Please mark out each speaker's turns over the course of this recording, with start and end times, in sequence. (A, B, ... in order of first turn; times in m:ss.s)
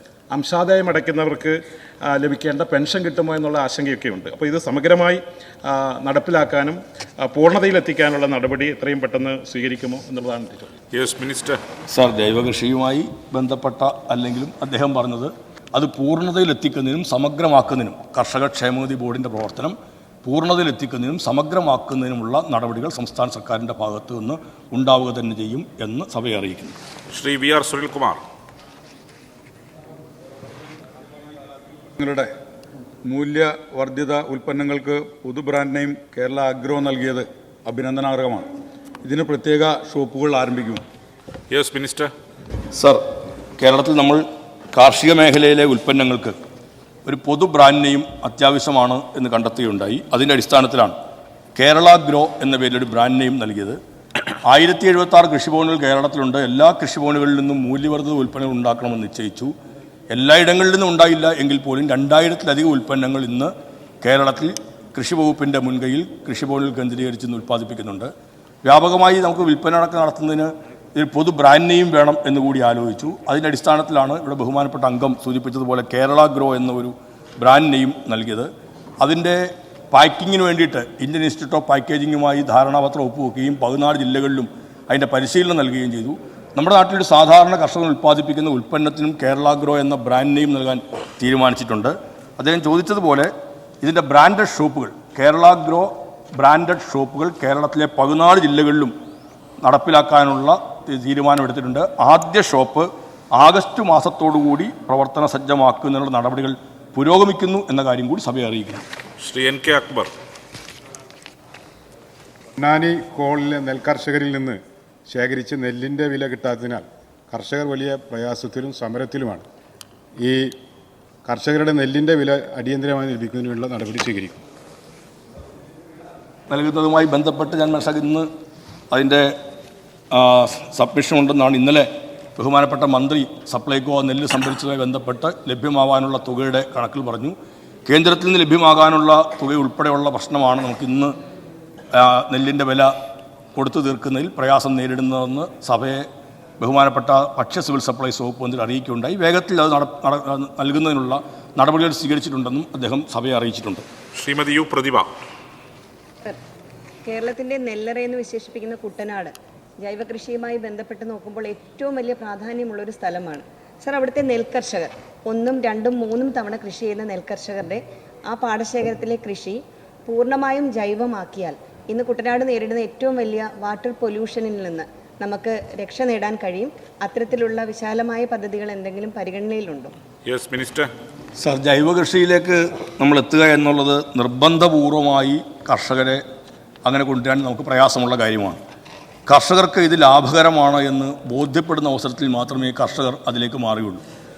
0:00.3-0:10.7 A
0:10.9-0:11.6 B
0:11.9-0:26.8 C
0:27.1-0:28.2 B
0:32.0-0:32.2 D
0:33.1-0:38.5 D
0:39.0-0:40.8 D
0:41.5-0:42.1 B
0:42.7-0:43.0 C
0:43.6-0:46.4 C
0:47.0-0:51.0 C
0:51.6-0:53.8 C
0:54.4-0:59.5 C
1:00.1-1:08.1 C
1:08.6-1:18.5 C
1:19.0-1:38.9 C
1:39.6-1:48.8 C
1:49.2-1:50.1 B
1:52.6-1:59.4 E
2:00.2-2:00.5 E
2:01.2-2:04.4 E
2:06.5-2:08.3 C
2:08.9-2:09.3 C
2:10.1-2:21.1 C
2:21.9-2:22.9 C
2:23.5-2:26.1 C
2:26.6-2:33.8 C
2:34.1-2:35.1 B
2:37.0-2:59.9 F
3:00.2-3:00.9 B
3:01.4-3:06.2 C
3:06.8-3:08.6 C
3:09.2-3:14.0 C